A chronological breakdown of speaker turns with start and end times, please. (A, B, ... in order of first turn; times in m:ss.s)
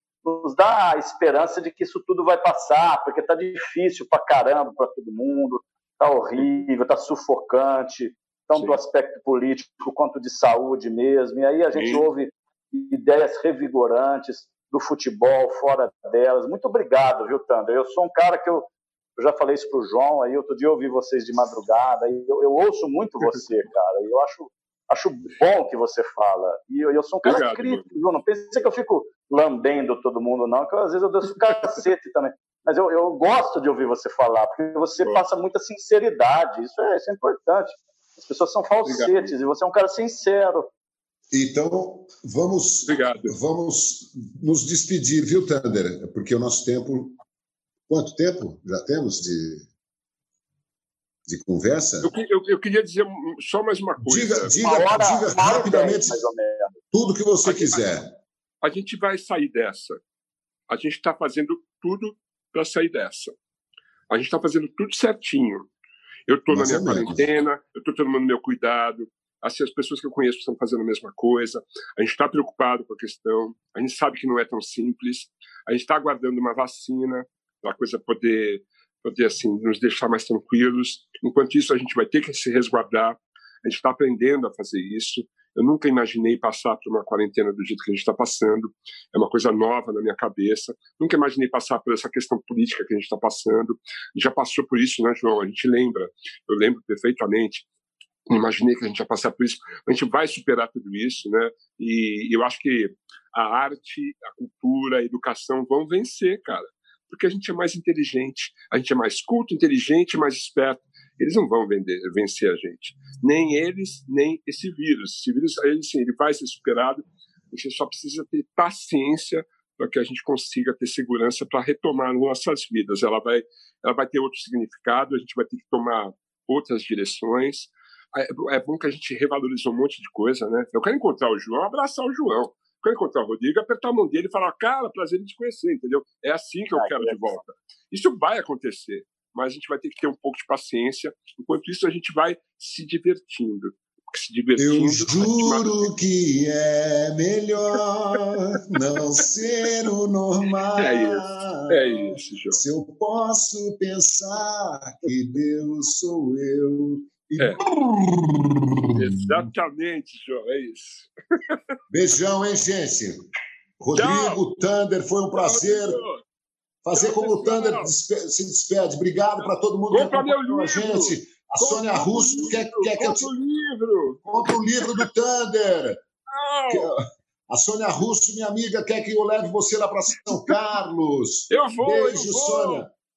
0:00.2-0:40.7 A
0:11.7-0:12.0 B
0:27.2-0:27.9 B
0:38.8-0:39.3 B
0:41.3-0:47.2 C
0:42.8-0:43.3 B
0:47.9-0:49.6 C
0:51.3-0:52.1 C
0:52.0-0:54.6 B
0:54.0-0:56.2 C
0:54.6-0:56.8 A
0:56.9-0:58.1 C
0:57.4-0:57.9 B
0:58.6-1:00.0 B
1:00.7-1:03.4 B
1:04.1-1:05.7 B
1:06.3-1:37.6 B
1:06.5-1:07.3 C
1:38.2-2:25.9 B
2:16.8-2:17.4 A
2:24.6-2:39.3 C
2:30.8-2:32.6 B
2:37.4-2:37.6 B
2:38.9-2:41.6 B
2:41.9-2:43.2 C
2:43.8-2:46.0 C
2:43.9-2:44.4 B
2:45.3-2:46.2 B
2:46.8-2:53.3 C
2:46.9-2:47.9 B
2:49.4-2:55.1 B
2:54.2-2:56.0 C
2:56.3-2:56.9 B
2:56.7-3:02.9 C
3:01.5-3:02.8 B